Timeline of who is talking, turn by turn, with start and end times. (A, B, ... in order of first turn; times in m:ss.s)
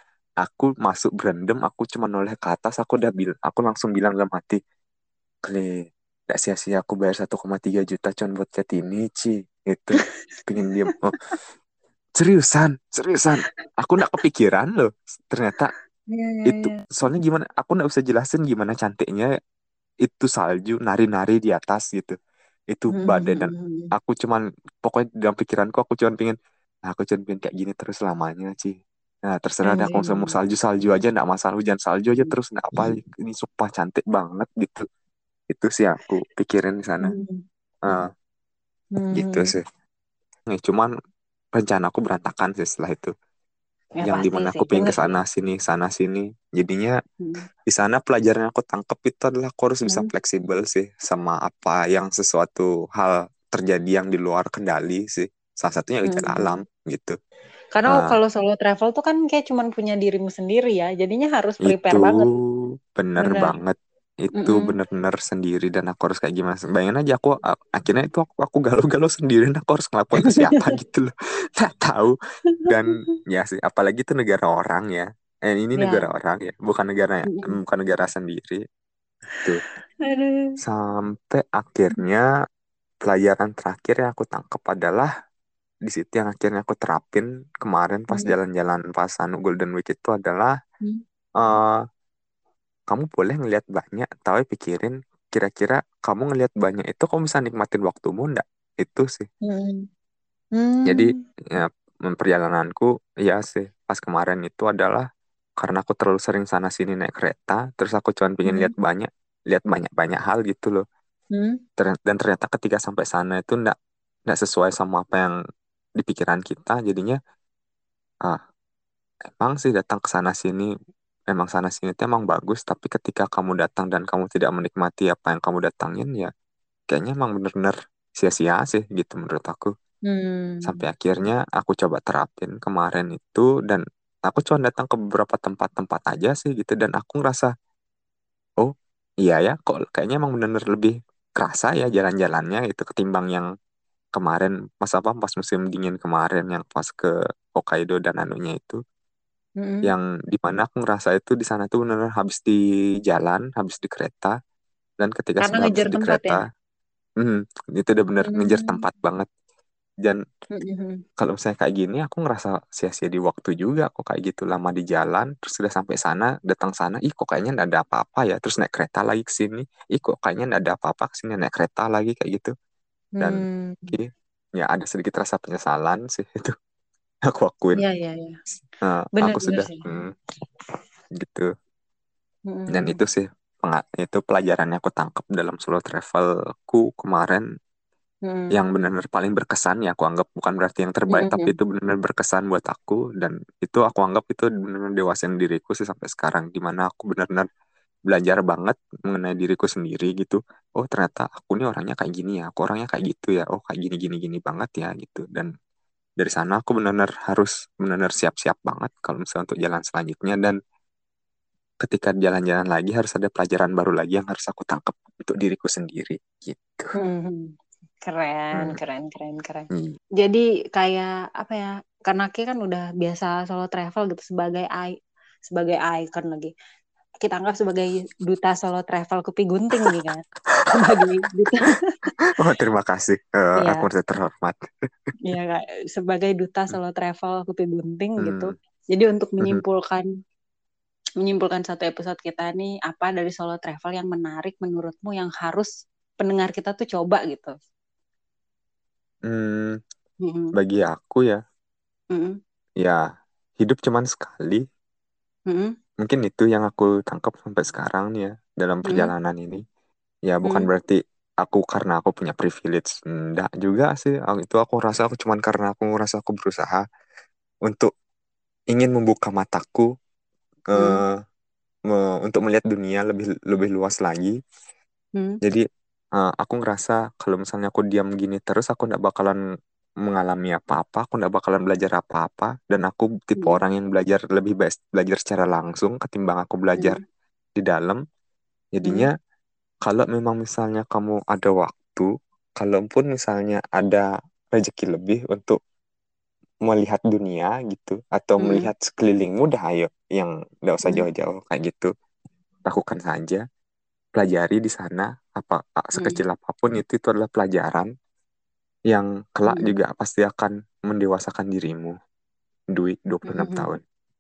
0:00.4-0:04.6 A
0:05.4-0:11.2 A
0:12.2-0:15.7 A
0:16.1-0:16.8 B
0:16.5-0:19.3 A
0:20.0-0:22.2 A
0:22.7-0:26.4 A
0:22.9-0:23.9 B
0:26.9-0:28.8 A
0:29.3-0:34.8 A
0:29.6-0:30.4 B
0:32.2-0:33.0 B
0:35.5-0:37.2 A
0:37.0-0:37.4 B
0:37.8-0:38.1 A
0:39.0-0:39.5 B
0:39.1-0:39.6 A
0:40.5-0:40.9 A
0:41.6-0:43.1 A
0:44.0-0:45.1 B
0:44.0-0:47.0 A
0:47.7-0:57.2 A
0:56.1-0:56.6 B
0:57.7-1:02.3 B
0:57.9-0:58.2 A
1:01.6-1:12.2 A
1:03.2-1:03.6 B
1:04.4-1:04.8 B
1:10.2-1:10.7 B
1:12.6-1:12.9 B
1:12.7-1:18.6 A
1:15.8-1:16.1 B
1:17.3-1:17.5 B
1:20.0-1:20.6 B
1:20.6-1:22.2 A
1:23.0-1:25.1 A
1:25.9-1:30.5 A
1:31.4-1:31.8 A
1:32.9-1:39.3 A
1:39.5-1:39.9 B
1:40.6-1:41.1 B
1:40.9-1:45.0 A
1:45.6-1:50.8 A
1:48.5-1:48.7 B
1:51.8-1:53.8 A
1:54.3-1:55.3 A
1:56.0-1:57.2 A
1:59.4-2:00.7 A
2:01.3-2:06.3 A
2:06.9-2:09.7 A
2:10.1-2:10.8 B
2:10.6-2:17.5 A
2:19.2-2:23.5 A
2:24.2-2:28.8 A
2:29.6-2:29.9 B
2:29.8-2:34.4 A
2:35.0-2:36.4 A
2:35.4-2:36.4 B
2:37.2-2:39.3 A
2:38.2-2:38.8 B
2:40.6-2:41.0 B
2:41.2-2:52.5 A
2:53.2-2:54.0 B
2:53.2-2:56.5 A
2:57.3-2:57.8 A
2:57.8-2:58.4 B
2:58.8-3:00.1 A
2:59.2-2:59.9 B
3:01.2-3:01.5 A
3:02.5-3:03.0 B
3:02.7-3:07.4 A
3:08.3-3:08.6 B
3:08.5-3:17.5 A
3:11.1-3:11.5 B
3:18.1-3:25.5 A
3:26.2-3:30.6 A
3:31.8-3:36.9 A
3:37.0-3:44.9 B
3:45.5-3:46.5 B
3:47.2-3:52.1 B
3:52.4-3:54.7 A
3:53.6-3:53.9 B
3:55.3-4:00.1 B
3:58.2-3:58.5 A
4:01.2-4:07.5 B
4:09.3-4:09.8 A
4:10.2-4:10.5 B
4:10.6-4:11.4 A
4:13.6-4:14.6 A
4:16.0-4:19.6 A
4:20.3-4:26.8 A
4:28.7-4:29.9 A
4:30.7-4:31.1 A
4:30.8-4:31.0 B
4:31.9-4:34.3 A
4:36.2-4:39.4 A
4:40.0-4:47.0 A
4:47.6-4:48.0 A
4:48.8-4:49.1 A
4:48.8-4:49.1 B
4:49.8-4:55.6 A
4:56.7-5:01.9 A
4:58.4-4:58.7 B
5:02.7-5:03.4 A
5:04.2-5:07.9 A
5:08.9-5:12.0 A
5:09.5-5:09.7 B
5:12.8-5:13.8 A
5:13.3-5:13.7 B